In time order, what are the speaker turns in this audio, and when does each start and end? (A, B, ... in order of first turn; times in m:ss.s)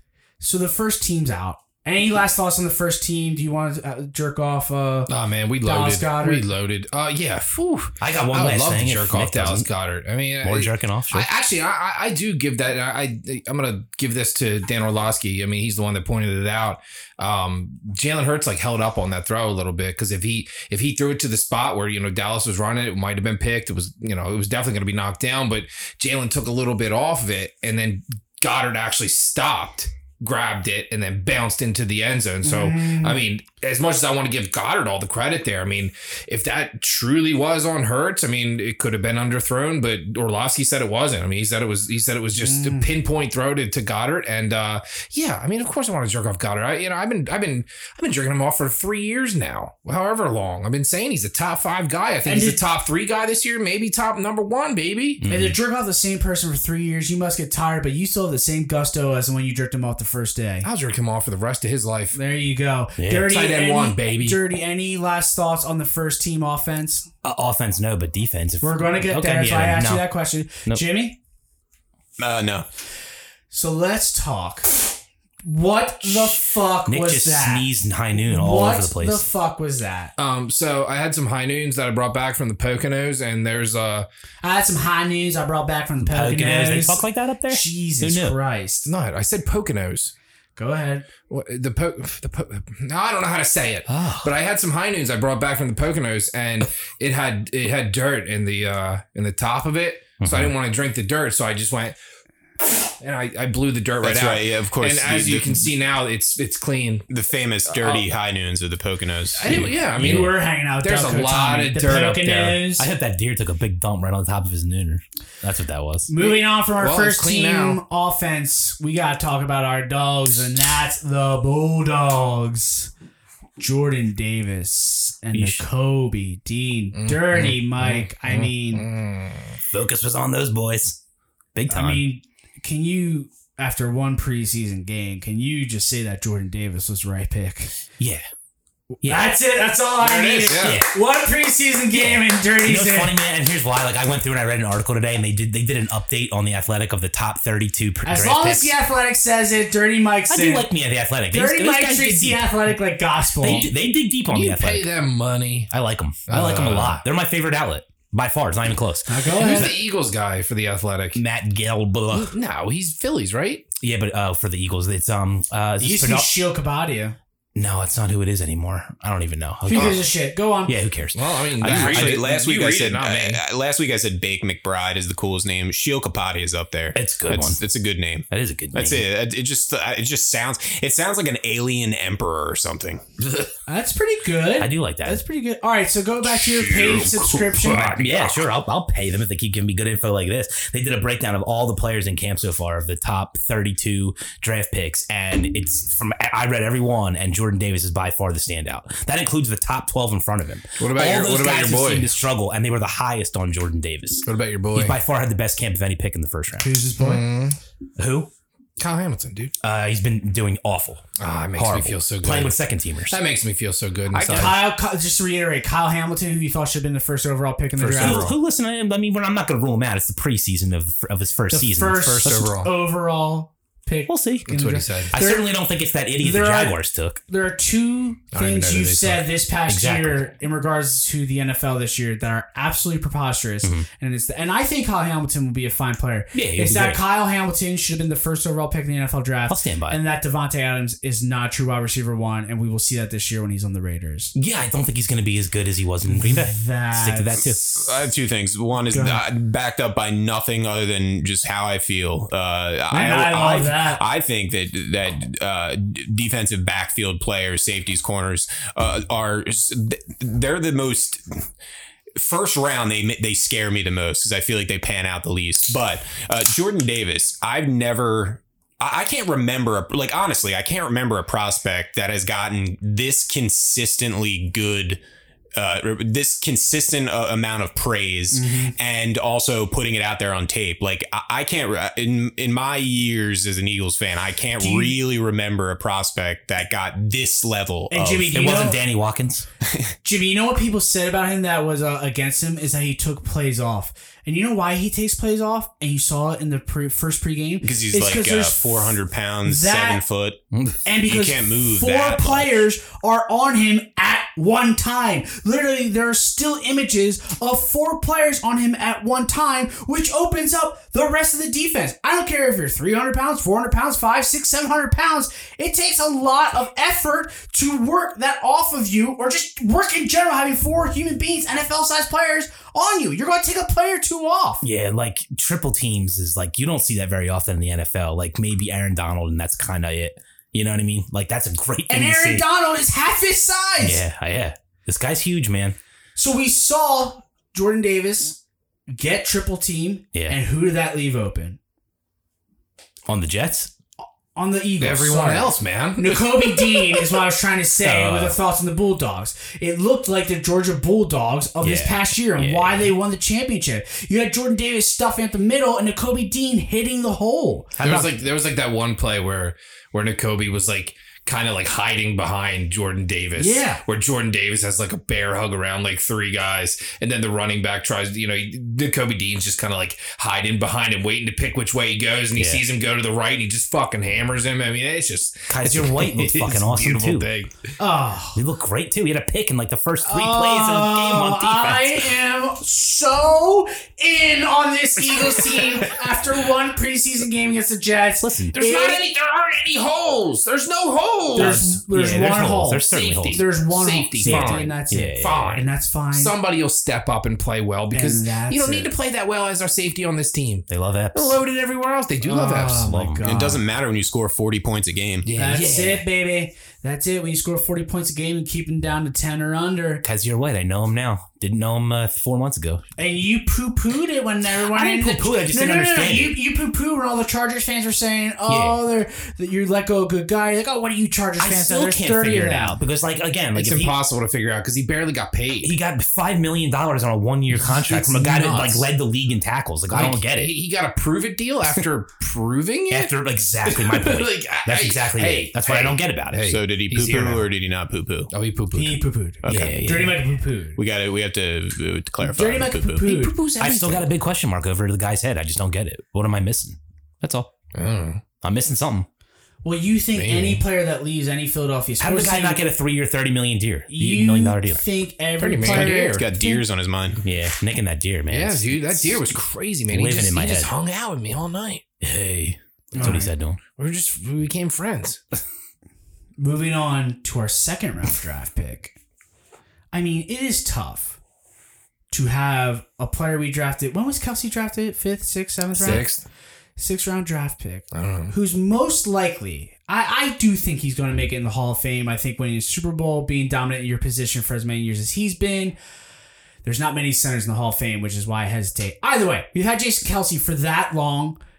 0:00.4-0:06.4 A
0:05.1-0:55.2 B
0:08.0-0:09.7 C
0:10.4-0:11.3 C
0:32.4-0:33.2 A
0:42.4-0:42.9 A
0:52.2-0:52.6 A
0:55.2-0:55.6 C
0:55.3-1:00.7 A
1:00.6-1:02.2 B
1:02.1-1:07.1 A
1:03.0-1:03.3 C
1:03.1-1:04.4 B
1:07.2-1:10.1 C
1:08.6-1:11.2 A
1:12.2-1:12.7 D
1:13.5-1:20.1 A
1:16.1-1:19.2 C
1:20.2-1:24.1 B
1:24.4-1:28.9 A
1:26.0-1:28.4 C
1:28.8-1:30.1 B
1:30.6-1:31.1 A
1:31.3-1:42.0 B
1:33.9-1:34.3 C
1:40.2-1:40.5 C
1:43.0-1:47.0 B
1:44.0-1:45.7 D
1:47.1-1:49.7 D
1:47.7-1:48.1 B
1:49.4-1:52.6 B
1:49.4-1:50.3 C
1:50.0-1:52.9 A
1:52.8-1:56.1 C
1:56.1-2:02.9 A
1:56.2-1:57.8 B
2:03.6-2:08.9 A
2:05.3-2:05.6 C
2:06.9-2:09.6 B
2:09.7-2:11.0 C
2:11.5-2:12.0 C
2:11.7-2:17.7 A
2:18.0-2:18.2 C
2:19.0-2:23.1 A
2:19.0-2:19.3 C
2:20.0-2:20.9 C
2:20.0-2:20.8 B
2:21.9-2:28.7 C
2:28.0-2:30.7 A
2:30.3-2:32.7 C
2:31.3-2:33.7 A
2:33.4-2:34.9 C
2:34.2-2:35.7 B
2:35.7-2:39.7 C
2:36.3-2:37.0 B
2:39.1-2:39.7 A
2:39.3-2:41.2 B
2:41.1-2:42.3 C
2:42.1-2:43.6 B
2:43.8-2:46.3 C
2:45.8-2:47.2 A
2:47.5-2:50.1 C
2:49.6-2:50.7 A
2:49.7-2:50.0 B
2:50.6-2:52.2 C
2:51.1-2:53.4 B
2:51.6-3:03.0 D
2:56.9-2:57.6 C
2:58.3-2:59.0 C
3:03.7-3:07.9 A
3:04.6-3:05.2 C
3:06.2-3:08.5 B
3:07.5-3:26.7 C
3:20.8-3:22.2 B
3:24.2-3:25.0 B
3:26.6-3:27.3 A
3:27.0-3:27.6 B
3:28.0-3:28.3 C
3:28.8-3:29.5 B
3:29.6-3:33.2 C
3:31.2-3:34.6 B
3:34.2-3:34.6 C
3:34.3-3:38.3 A
3:37.8-3:38.4 B
3:37.8-3:42.5 C
3:41.5-3:45.5 A
3:42.2-3:42.7 B
3:44.1-3:44.6 C
3:44.5-3:45.2 B
3:45.1-3:47.2 C
3:46.2-4:04.3 A
3:48.3-3:49.3 B
3:49.7-3:50.2 C
3:56.3-3:57.0 C
3:59.5-4:00.0 C
4:04.3-4:07.6 C
4:06.0-4:07.9 A
4:07.7-4:21.2 D
4:08.9-4:09.2 A
4:12.9-4:14.0 A
4:22.2-4:35.0 D
4:35.6-4:48.7 D
4:38.3-4:38.7 A
4:44.6-4:45.0 A
4:47.9-4:48.8 A
4:48.3-4:49.5 C
4:50.0-5:00.0 A
4:57.6-5:00.4 D
5:00.5-5:00.8 C
5:00.8-5:24.6 A
5:01.0-5:02.6 D
5:24.6-5:32.4 C
5:31.9-5:34.0 A
5:33.8-5:35.8 C
5:36.2-5:38.4 A
5:38.9-5:41.6 A
5:43.1-5:43.7 C
5:44.3-5:58.1 A
5:44.8-5:47.0 B
5:47.8-5:48.4 C
5:51.6-5:52.9 C
5:57.8-6:17.5 B
6:03.4-6:03.8 A
6:12.3-6:12.6 C
6:15.5-6:17.3 C
6:17.8-6:18.4 A
6:18.3-6:22.1 C
6:20.0-6:29.0 A
6:28.2-6:28.6 C
6:28.5-6:31.8 B
6:31.3-6:36.3 A
6:31.3-6:33.5 C
6:32.9-6:43.1 B
6:34.2-6:35.6 C
6:37.9-6:38.9 A
6:40.7-6:41.4 C
6:42.2-6:43.7 A
6:42.8-6:43.3 C
6:43.2-6:45.3 D
6:45.2-6:46.0 B
6:45.4-6:50.0 A
6:45.7-6:46.0 C
6:50.0-6:52.8 C
6:53.0-7:02.8 A
6:54.6-6:56.4 C
6:58.5-6:58.8 C
7:01.4-7:04.0 C
7:03.5-7:05.8 B
7:05.6-7:10.5 C
7:07.5-7:08.9 B
7:09.9-7:13.1 B
7:12.9-7:16.5 C
7:13.6-7:17.5 B
7:16.4-7:18.3 D
7:18.3-7:19.0 B
7:18.7-7:20.8 A
7:19.4-7:19.8 D
7:19.4-7:20.3 C
7:20.8-7:23.0 D
7:22.2-7:23.3 A
7:23.0-7:24.1 B
7:23.6-7:27.5 C
7:27.7-7:28.2 B
7:28.4-7:29.1 C
7:29.6-7:32.6 A
7:30.1-7:30.6 B
7:32.0-7:34.8 C
7:33.9-7:36.6 A
7:35.4-7:36.3 B
7:35.6-7:37.2 D
7:37.2-7:39.3 C
7:38.3-7:41.8 B
7:39.9-7:40.7 C
7:42.0-7:43.6 C
7:42.9-7:43.3 A
7:43.8-7:45.2 B
7:46.4-7:49.0 A
7:49.9-7:51.2 A
7:52.1-7:56.1 A
7:55.7-7:56.2 B
7:56.8-8:05.8 A
7:57.9-7:58.3 B
8:06.6-8:11.4 A